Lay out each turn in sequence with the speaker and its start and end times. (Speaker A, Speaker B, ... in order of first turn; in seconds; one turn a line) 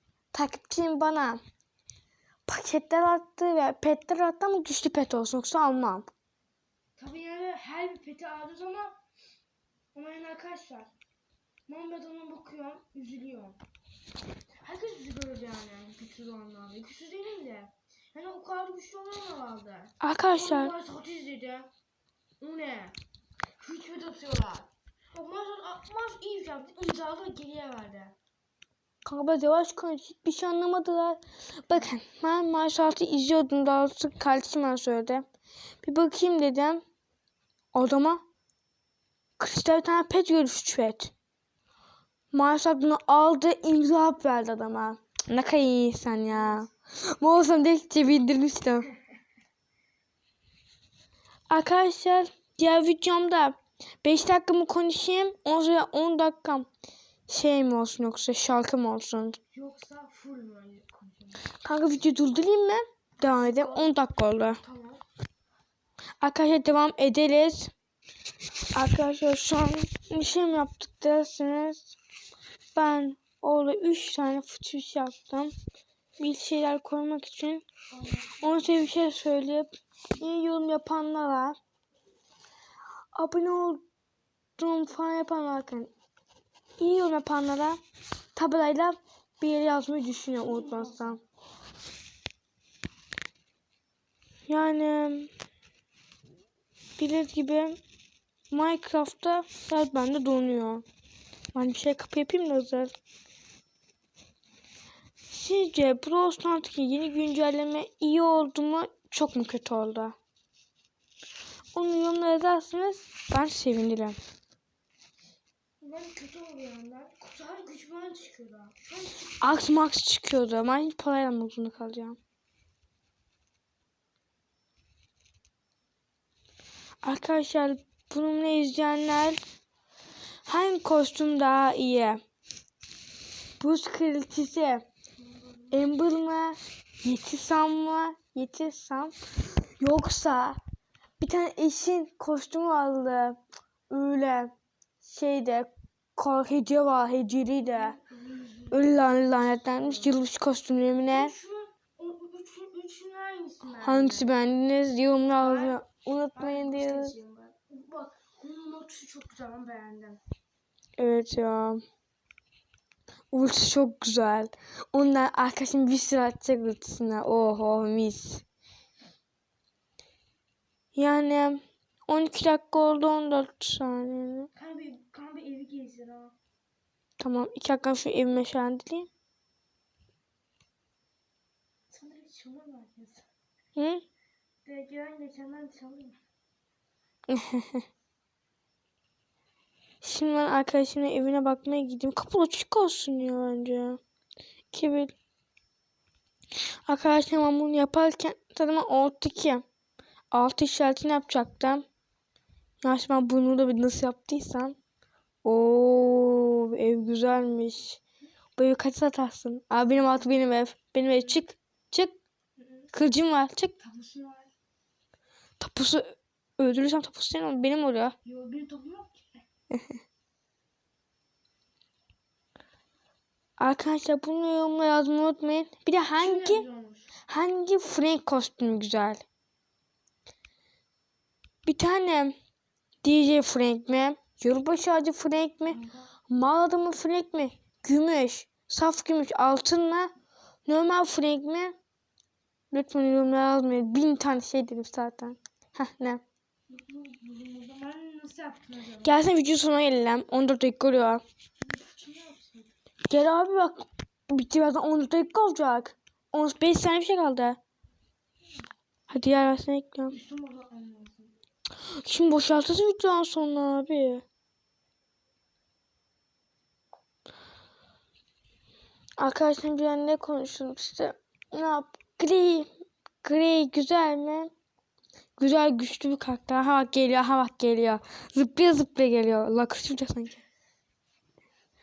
Speaker A: 0.3-1.4
Speaker A: 2.5-6.1
Speaker B: 7.0-9.0
Speaker B: 9.9-10.9
Speaker B: 11.7-13.6
Speaker B: 14.6-21.7
Speaker A: 20.0-20.7
Speaker B: 22.4-23.0
Speaker B: 23.6-28.2
Speaker A: 29.1-35.3
Speaker A: 35.8-36.8
Speaker A: 37.7-38.2
Speaker A: 39.4-41.1
Speaker A: 42.3-48.9
Speaker B: 46.3-46.7
Speaker A: 51.5-56.7
Speaker A: 57.3-59.4
Speaker B: 59.5-61.5
Speaker A: 61.6-64.6
Speaker B: 63.2-64.0
Speaker B: 64.6-65.0
Speaker A: 66.2-67.7
Speaker A: 68.7-72.0
Speaker A: 72.8-75.5
Speaker A: 76.2-77.7
Speaker B: 77.9-78.8
Speaker A: 78.4-81.6
Speaker A: 83.2-83.8
Speaker A: 84.6-85.9
Speaker A: 86.8-87.8
Speaker A: 88.3-91.2
Speaker B: 90.4-91.2
Speaker A: 94.5-95.3
Speaker A: 97.0-97.8
Speaker A: 98.5-100.8
Speaker A: 101.5-102.9
Speaker A: 105.3-110.2
Speaker A: 111.7-114.2
Speaker B: 115.8-119.8
Speaker A: 119.4-122.2
Speaker A: 127.0-129.4
Speaker A: 130.5-132.2
Speaker A: 133.6-134.9
Speaker B: 135.2-135.9
Speaker A: 135.7-140.6
Speaker A: 141.2-143.4
Speaker A: 143.9-148.0
Speaker B: 147.6-149.2
Speaker A: 148.7-151.3
Speaker B: 151.1-154.3
Speaker A: 153.8-157.2
Speaker B: 155.4-155.8
Speaker B: 156.3-160.2
Speaker A: 161.0-161.8
Speaker A: 163.3-168.4
Speaker A: 170.9-174.5
Speaker B: 174.6-176.4
Speaker A: 177.2-179.1
Speaker B: 181.9-183.3
Speaker A: 183.8-184.0
Speaker B: 184.7-186.2
Speaker A: 187.3-187.8
Speaker A: 190.0-194.0
Speaker A: 194.7-195.1
Speaker A: 196.9-199.6
Speaker A: 200.3-201.8
Speaker A: 202.8-204.8
Speaker A: 205.4-208.0
Speaker A: 208.6-212.2
Speaker B: 212.6-212.9
Speaker A: 212.9-213.8
Speaker B: 213.8-214.5
Speaker A: 215.6-218.2
Speaker B: 218.2-219.4
Speaker A: 223.6-226.7
Speaker B: 226.1-227.1
Speaker A: 227.3-229.2
Speaker A: 231.7-232.4
Speaker A: 233.0-240.1
Speaker B: 235.7-236.1
Speaker A: 240.7-241.8
Speaker A: 242.7-246.2
Speaker B: 246.7-249.2
Speaker A: 249.0-251.2
Speaker B: 251.6-252.7
Speaker A: 253.1-257.6
Speaker A: 259.1-260.2
Speaker B: 260.1-261.4
Speaker A: 261.9-264.2
Speaker A: 269.2-272.7
Speaker A: 273.2-274.5
Speaker A: 275.4-280.4